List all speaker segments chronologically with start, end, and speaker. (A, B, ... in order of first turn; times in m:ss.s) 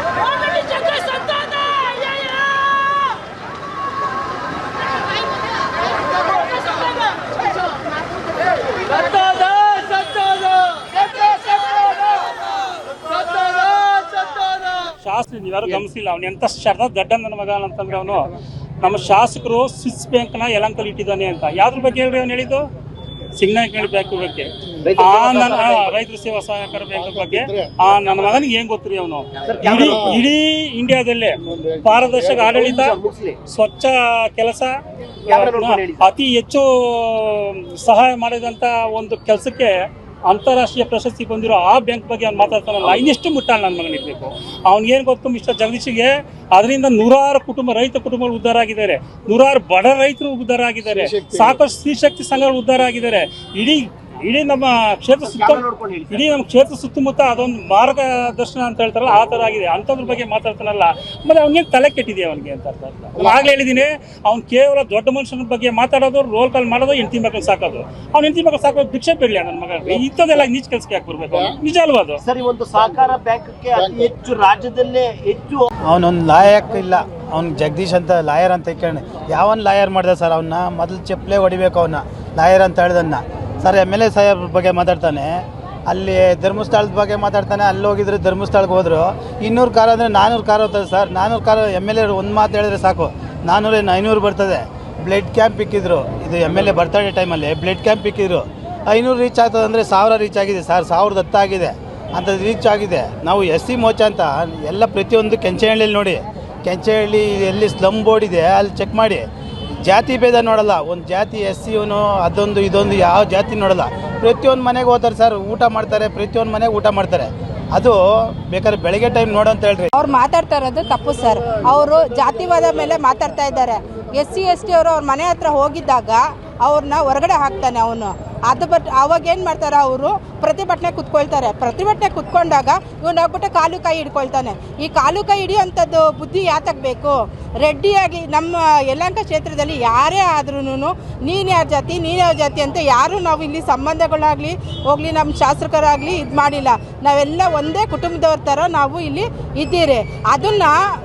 0:15.0-0:18.3 A
0:18.8-0:22.6 A
0:23.4-0:33.0 A
0:24.8-0:26.0 B
0:29.4-0:30.2 B
0:32.4-0:33.4 B
0:33.5-0:34.8 A
0:35.3-0:39.7 A
0:35.3-0:36.1 B
0:40.3-1:12.2 A
0:55.2-0:56.3 B
1:12.2-1:15.7 B
1:15.9-1:49.3 C
1:49.8-1:59.9 C
2:00.0-2:30.8 D